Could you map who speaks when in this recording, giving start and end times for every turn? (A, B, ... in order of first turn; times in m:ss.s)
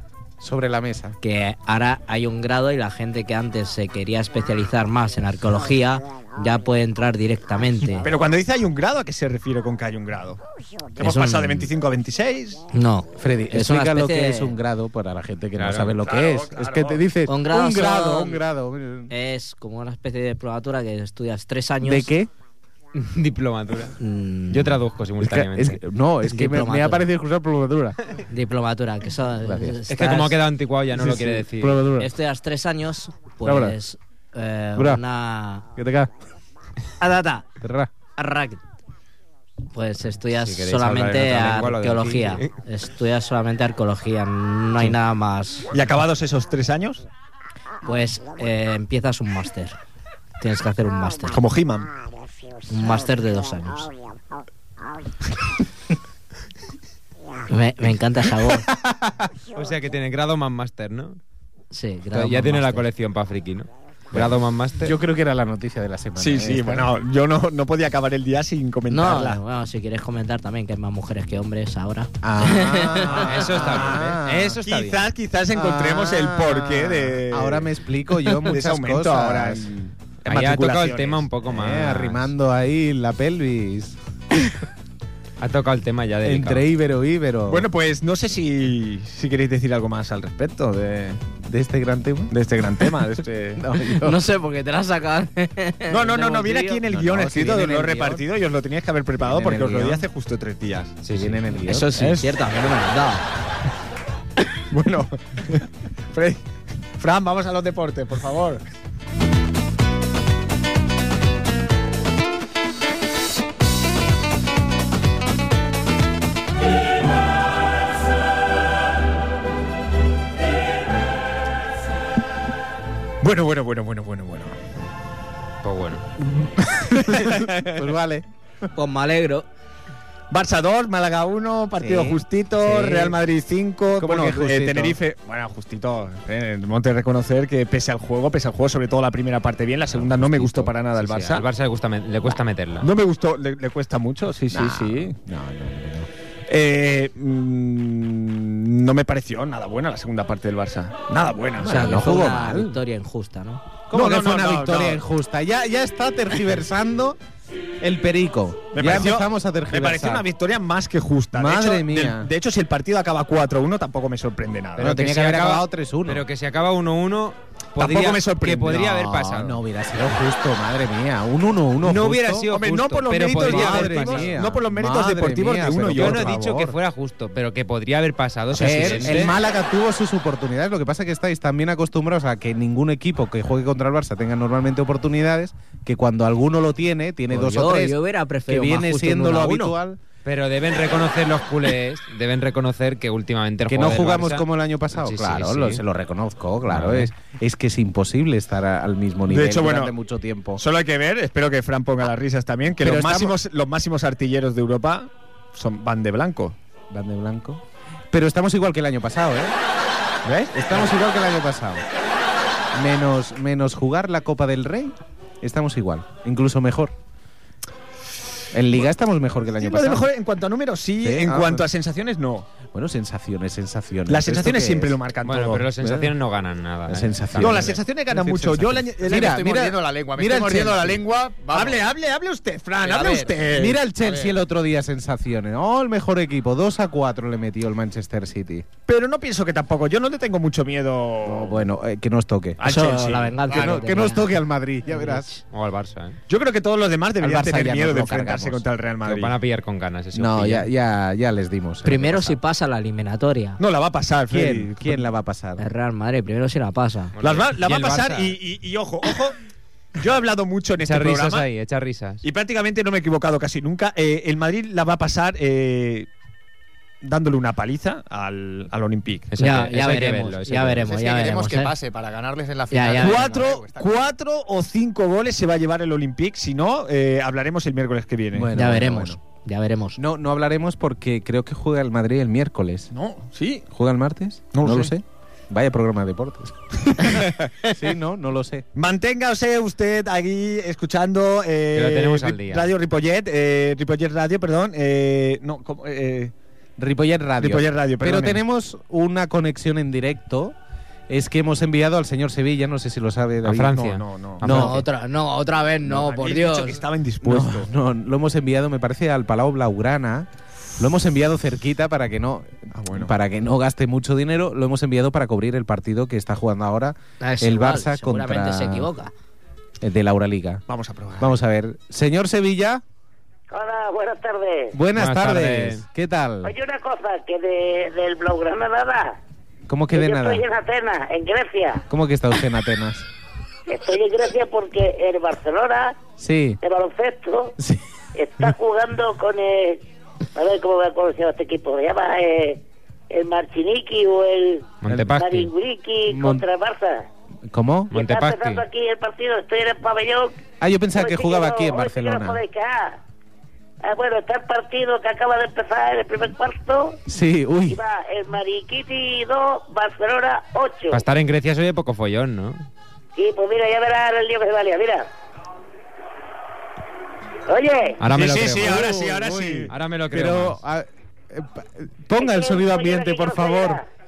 0:00.4-0:01.2 A
0:01.2-0:08.1 B
0:08.0-0:10.4 C
0:11.0-0:12.6 C
0:11.0-0:11.7 B
0:12.7-0:14.6 B
0:13.2-0:19.1 A
0:15.6-0:16.0 D
0:16.0-0:17.0 C
0:17.3-0:18.4 B
0:19.1-0:22.1 B
0:21.8-0:22.3 A
0:22.9-0:24.0 D
0:24.0-0:24.8 B
0:24.5-0:25.8 D
0:25.2-0:28.0 A
0:26.2-0:27.1 B
0:28.3-0:30.4 B
0:29.4-0:29.8 A
0:29.9-0:31.8 D
0:30.9-0:32.1 A
0:32.0-0:35.7 B
0:33.4-0:33.8 A
0:34.8-0:35.0 A
0:35.8-0:36.1 A
0:37.0-0:37.5 B
0:37.6-0:37.9 A
0:38.2-0:38.6 B
0:39.7-0:45.7 B
0:40.4-0:42.5 D
0:45.7-0:47.0 C
0:47.8-0:49.8 B
0:50.4-0:51.4 B
0:51.3-0:51.9 C
0:52.7-0:53.9 B
0:57.5-0:58.7 B
0:58.8-0:59.2 A
0:59.5-1:01.2 D
1:01.7-1:02.8 B
1:02.1-1:05.0 D
1:04.1-1:06.9 A
1:06.2-1:09.4 C
1:08.9-1:13.3 B
1:12.2-1:14.6 A
1:13.1-1:14.0 C
1:13.1-1:15.1 D
1:14.6-1:17.7 C
1:15.5-1:20.9 A
1:18.4-1:19.8 C
1:20.2-1:22.3 D
1:20.3-1:21.2 C
1:21.4-1:24.0 A
1:25.4-1:26.6 D
1:26.2-1:27.7 A
1:27.5-1:31.3 C
1:31.4-1:33.0 A
1:32.3-1:33.6 C
1:33.6-1:34.2 A
1:34.0-1:36.8 B
1:35.9-1:41.0 C
1:36.9-1:38.2 A
1:39.2-1:40.1 A
1:41.0-1:41.4 D
1:41.1-1:42.0 A
1:41.6-1:43.2 B
1:42.0-1:42.3 C
1:44.7-1:46.4 C
1:47.0-1:48.6 C
2:03.2-2:04.6 C
2:05.6-2:06.1 D
2:06.7-2:07.8 C
2:07.0-2:08.2 A
2:08.7-2:09.5 B
2:10.3-2:21.4 C
2:11.8-2:13.2 A
2:14.0-2:15.0 A
2:20.0-2:20.7 A
2:21.0-2:22.9 D
2:22.8-2:25.2 C
2:24.5-2:26.1 A
2:26.5-2:31.8 C
2:31.6-2:32.8 A
2:31.6-2:33.6 B
2:33.9-2:37.2 A
2:33.9-2:35.0 C
2:37.8-2:40.2 A
2:38.7-2:45.0 C
2:41.3-2:42.3 A
2:44.8-2:46.2 A
2:44.8-2:49.6 D
2:47.8-2:49.1 C
2:48.8-2:52.6 A
2:51.8-2:54.4 D
2:52.5-2:56.4 C
2:53.1-2:56.8 A
2:55.9-2:59.4 D
2:58.5-3:08.0 A
2:58.9-2:59.2 C
3:07.3-3:09.8 B
3:08.5-3:10.0 A
3:10.2-3:15.8 D
3:13.7-3:20.6 A
3:16.6-3:17.1 D
3:19.3-3:19.9 C
3:20.6-3:26.6 C
3:22.7-3:23.4 A
3:26.9-3:29.6 A
3:30.2-3:30.9 C
3:30.5-3:31.8 A
3:32.7-3:37.0 A
3:38.5-3:40.1 A
3:39.6-3:42.5 C
3:41.0-3:41.7 A
3:42.7-3:45.0 A
3:44.1-3:45.7 C
3:45.2-3:47.8 D
3:45.8-3:46.1 A
3:46.9-3:51.0 A
3:47.4-3:49.4 C
3:49.1-3:51.8 E
3:51.5-3:53.8 C
3:52.8-3:54.4 E
3:53.5-3:58.6 A
3:58.9-4:01.6 C
4:01.2-4:02.6 A
4:02.6-4:03.4 C
4:02.6-4:05.4 B
4:03.5-4:05.3 A
4:03.5-4:03.8 E
4:05.5-4:06.2 D
4:06.3-4:09.4 C
4:07.2-4:08.6 A
4:09.0-4:10.7 D
4:10.1-4:12.4 A
4:11.8-4:13.6 B
4:13.6-4:15.1 C
4:14.3-4:15.6 A
4:15.6-4:17.1 B
4:17.2-4:18.4 D
4:17.2-4:19.4 C
4:20.0-4:21.5 C
4:20.8-4:22.2 D
4:22.2-4:26.1 C
4:27.0-4:29.3 C
4:29.3-4:30.9 D
4:29.4-4:31.7 B
4:30.8-4:34.1 E
4:32.7-4:33.2 B
4:33.0-4:38.5 C
4:38.3-4:39.2 A
4:38.6-4:40.0 B
4:40.0-4:42.9 A
4:42.9-4:43.6 C
4:43.7-4:48.6 A
4:44.5-4:44.9 C
4:46.9-4:47.5 C
4:48.8-4:56.3 C
4:51.7-4:52.7 D
4:56.8-5:00.6 A
4:57.4-4:58.4 C
5:01.1-5:03.8 A
5:03.4-5:04.8 D
5:03.7-5:04.4 C
5:04.4-5:04.8 A
5:04.4-5:06.8 B
5:05.8-5:07.7 C
5:07.2-5:18.9 A
5:12.7-5:13.1 C
5:17.2-5:19.1 B
5:19.8-5:20.6 A
5:20.7-5:21.4 C
5:21.2-5:22.8 A
5:23.5-5:24.8 F
5:24.7-5:26.5 A
5:25.0-5:25.8 D
5:26.4-5:29.2 F
5:29.7-5:30.4 A
5:29.9-5:31.8 F
5:31.9-5:33.1 A
5:33.7-5:36.0 F
5:36.2-5:36.6 A
5:36.6-5:37.6 F
5:37.6-5:37.8 A
5:38.1-5:39.8 F
5:40.4-5:47.1 F
5:44.8-5:45.5 D
5:44.9-5:45.2 A
5:46.1-5:46.4 A
5:47.5-5:47.9 A
5:47.9-5:48.6 D
5:47.9-5:50.4 F
5:50.6-5:52.4 A
5:51.0-5:53.0 F
5:53.8-5:57.0 F
5:57.1-5:57.8 A
5:57.7-6:01.0 F
6:00.9-6:02.7 D
6:03.2-6:05.1 F
6:07.4-6:08.0 F
6:08.0-6:08.9 D
6:08.1-6:09.7 C
6:08.6-6:13.8 A
6:09.7-6:10.6 D
6:12.1-6:13.9 F